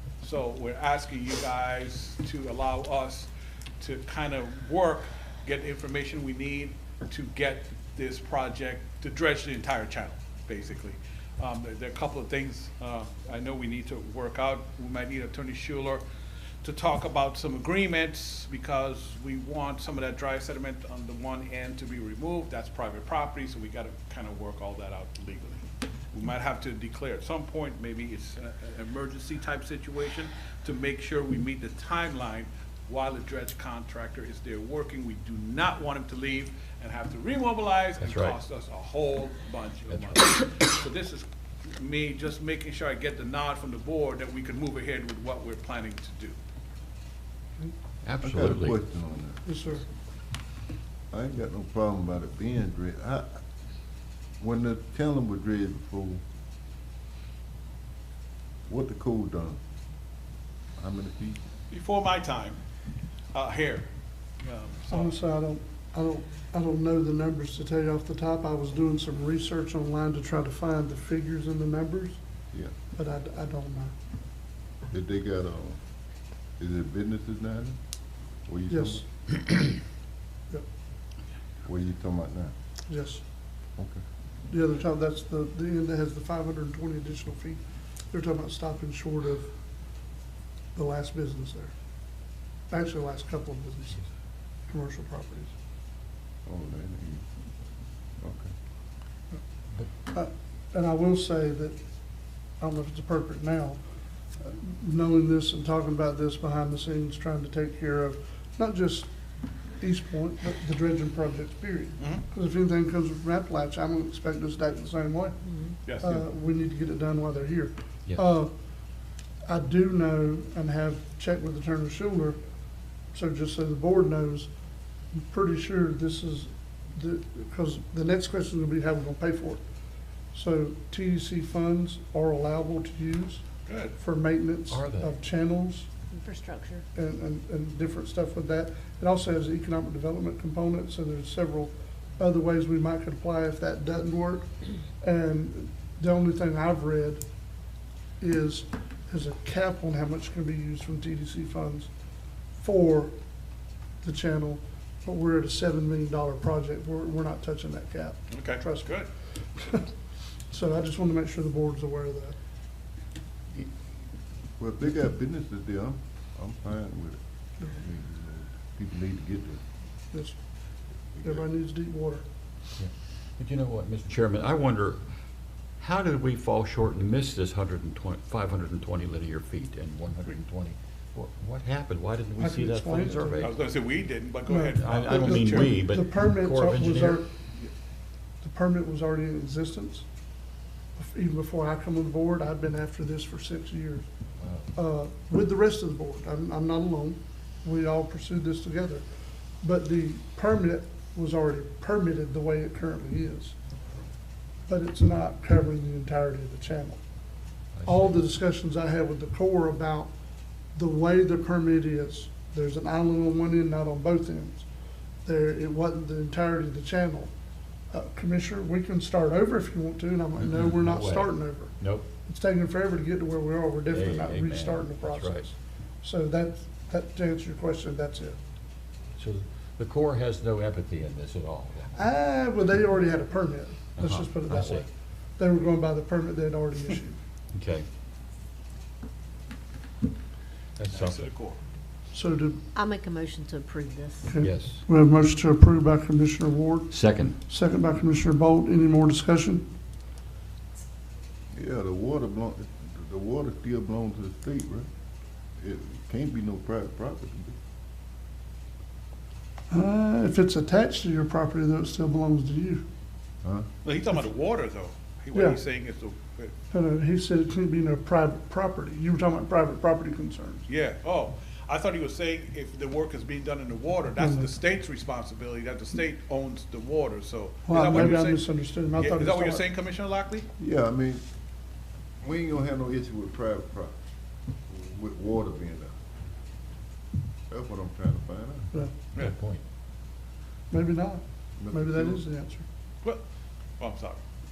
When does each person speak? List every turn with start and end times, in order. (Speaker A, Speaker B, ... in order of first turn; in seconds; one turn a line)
Speaker A: 0.2-3.3
Speaker A: 3.8-16.0
Speaker A: 16.6-46.4
Speaker B: 38.0-38.4
Speaker B: 39.9-40.2
Speaker B: 48.0-48.8
Speaker C: 48.2-49.4
Speaker D: 49.5-49.8
Speaker C: 51.1-53.4
Speaker C: 54.4-56.2
Speaker C: 58.7-59.6
Speaker C: 60.8-61.4
Speaker A: 61.7-62.6
Speaker A: 63.3-63.9
Speaker A: 64.4-65.2
Speaker D: 64.9-72.2
Speaker D: 72.9-73.9
Speaker C: 74.9-75.8
Speaker C: 76.6-77.8
Speaker C: 78.5-79.0
Speaker D: 78.7-79.0
Speaker C: 81.6-82.5
Speaker D: 82.9-83.2
Speaker C: 83.8-84.0
Speaker D: 84.5-89.5
Speaker D: 90.8-91.7
Speaker D: 92.7-94.1
Speaker D: 94.7-95.5
Speaker C: 96.5-97.3
Speaker C: 98.2-98.5
Speaker D: 100.1-101.8
Speaker D: 102.6-103.8
Speaker D: 104.4-109.1
Speaker D: 109.8-115.4
Speaker A: 112.0-112.2
Speaker E: 115.5-115.8
Speaker A: 115.8-116.2
Speaker D: 116.0-118.5
Speaker D: 119.5-122.4
Speaker D: 123.1-124.5
Speaker D: 125.1-129.6
Speaker D: 130.3-133.4
Speaker A: 133.7-133.9
Speaker D: 134.0-135.9
Speaker B: 134.7-135.2
Speaker E: 136.1-136.8
Speaker D: 136.9-144.5
Speaker D: 145.0-147.2
Speaker D: 148.2-151.9
Speaker D: 152.6-153.1
Speaker D: 154.0-158.9
Speaker A: 158.3-159.1
Speaker D: 159.6-159.9
Speaker D: 160.5-162.3
Speaker C: 164.6-169.6
Speaker C: 171.2-171.5
Speaker D: 171.2-172.2
Speaker B: 172.8-175.0
Speaker B: 175.8-183.7
Speaker D: 182.4-183.5
Speaker A: 183.4-185.8
Speaker D: 184.5-187.3
Speaker B: 184.8-187.2
Speaker D: 188.4-190.1
Speaker D: 191.0-194.1
Speaker B: 194.4-194.7
Speaker D: 194.7-199.0
Speaker D: 199.6-203.6
Speaker D: 204.7-207.0
Speaker B: 207.8-208.2
Speaker D: 207.8-210.1
Speaker D: 210.8-214.7
Speaker D: 215.2-217.3
Speaker D: 217.9-228.4
Speaker B: 220.3-222.1
Speaker B: 223.9-225.5
Speaker B: 229.2-231.9
Speaker D: 231.9-237.2
Speaker B: 234.0-234.9
Speaker B: 237.5-237.8
Speaker B: 240.8-241.3
Speaker A: 240.9-241.6
Speaker D: 242.1-242.6
Speaker E: 242.8-244.3
Speaker D: 244.3-249.7
Speaker B: 244.4-244.8
Speaker B: 246.9-247.4
Speaker C: 251.5-254.9
Speaker C: 255.6-257.6
Speaker D: 259.7-262.9
Speaker A: 263.8-266.5
Speaker D: 265.3-265.6
Speaker D: 266.7-270.7
Speaker A: 270.7-280.5
Speaker D: 274.2-274.5
Speaker D: 277.7-279.6
Speaker C: 280.6-281.2
Speaker C: 282.2-284.0
Speaker C: 284.7-285.9
Speaker C: 287.5-288.7
Speaker B: 289.1-289.6
Speaker D: 290.7-292.6
Speaker C: 291.6-292.2
Speaker A: 293.8-294.2